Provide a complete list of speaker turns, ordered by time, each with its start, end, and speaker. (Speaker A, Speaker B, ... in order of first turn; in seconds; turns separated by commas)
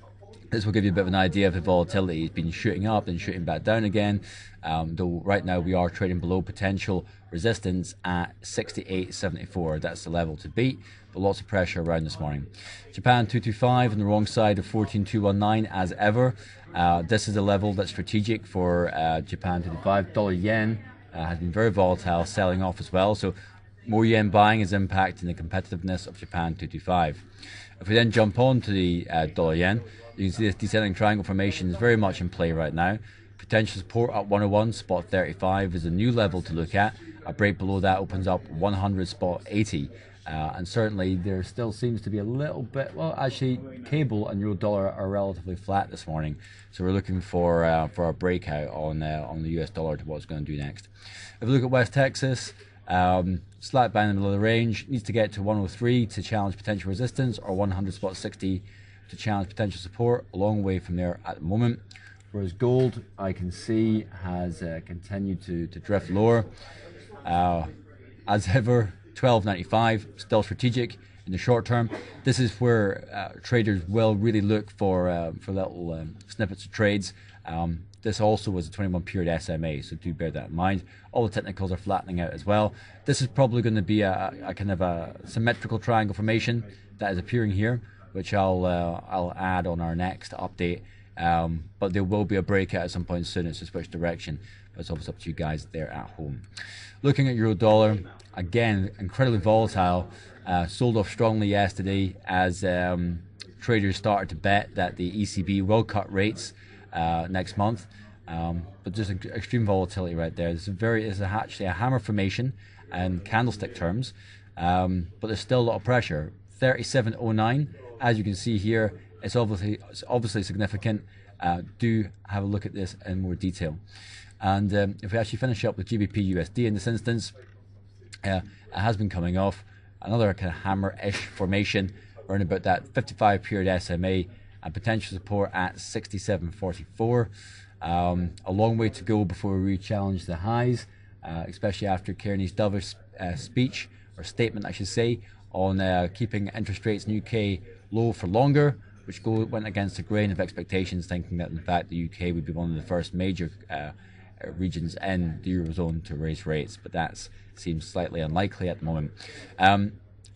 Speaker A: 0.5-27.2, Speaker A: 27.8-50.9, Speaker A: 51.4-61.8, Speaker A: 62.3-66.5, Speaker A: 67.2-67.7, Speaker A: 68.3-96.4, Speaker A: 97.0-123.8, Speaker A: 124.4-127.3, Speaker A: 128.2-137.3, Speaker A: 137.8-159.9